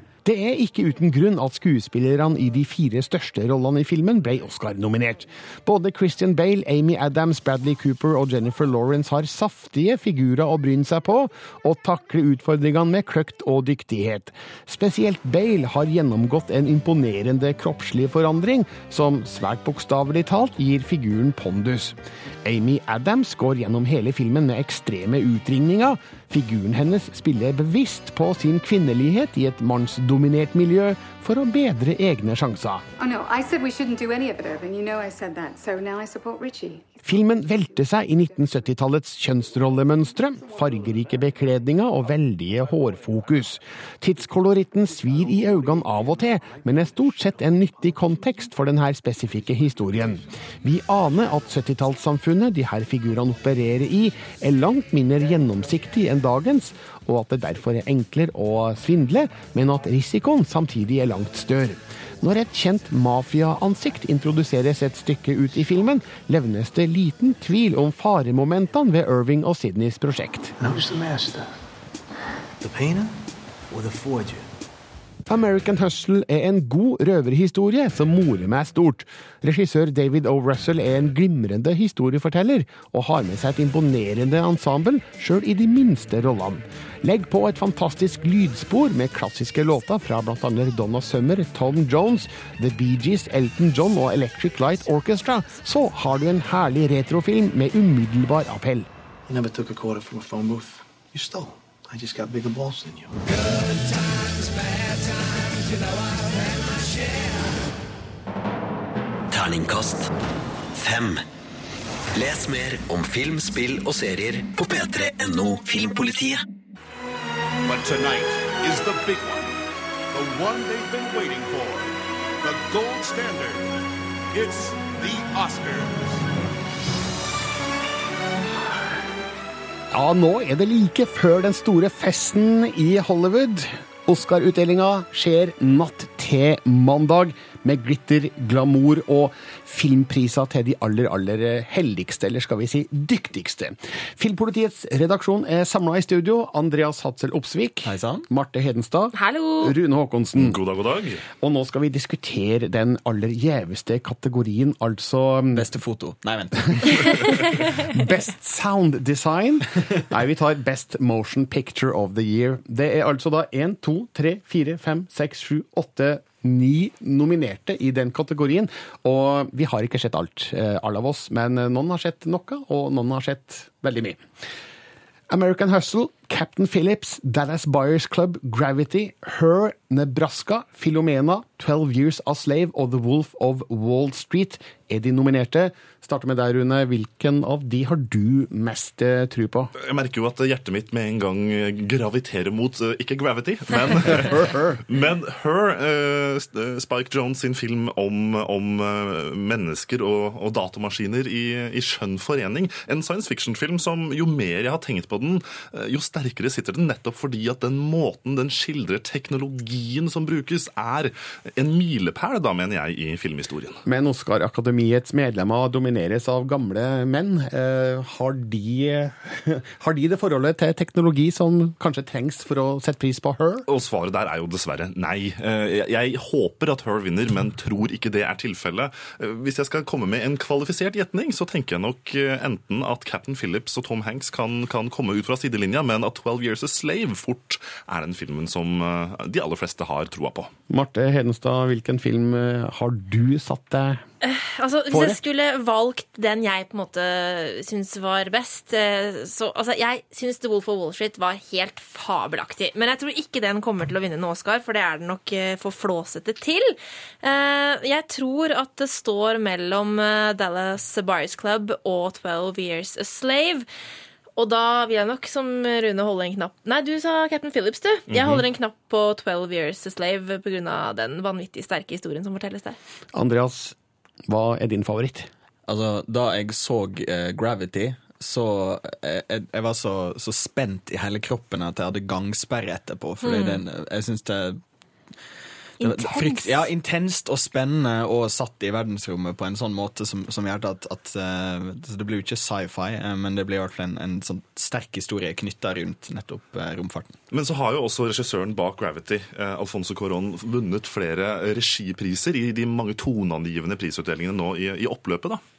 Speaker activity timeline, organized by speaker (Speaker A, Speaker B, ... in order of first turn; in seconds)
Speaker A: 0.2-32.8, 37.0-70.5, 75.2-98.9, 129.9-150.6, 151.4-155.6, 157.9-174.2, 175.3-189.7, 213.8-223.7, 240.7-244.0, 244.9-245.2, 273.1-273.8, 274.3-275.3
Speaker B: 33.0-36.9
Speaker C: 70.6-71.5, 72.6-73.2, 73.7-74.5, 99.3-103.2
Speaker D: 109.3-110.1, 110.8-111.2, 112.1-116.4
Speaker E: 117.6-119.6, 120.1-121.9, 122.4-123.6, 124.3-126.2
Speaker F: 147.8-148.2, 155.5-157.0, 275.7-284.6, 285.8-297.1
Speaker G: 149.1-149.7, 244.2-263.7, 264.4-272.8, 283.2-283.6, 285.8-286.6
Speaker H: 150.3-151.2, 189.8-213.8, 223.7-240.5, 268.1-268.4, 297.3-305.4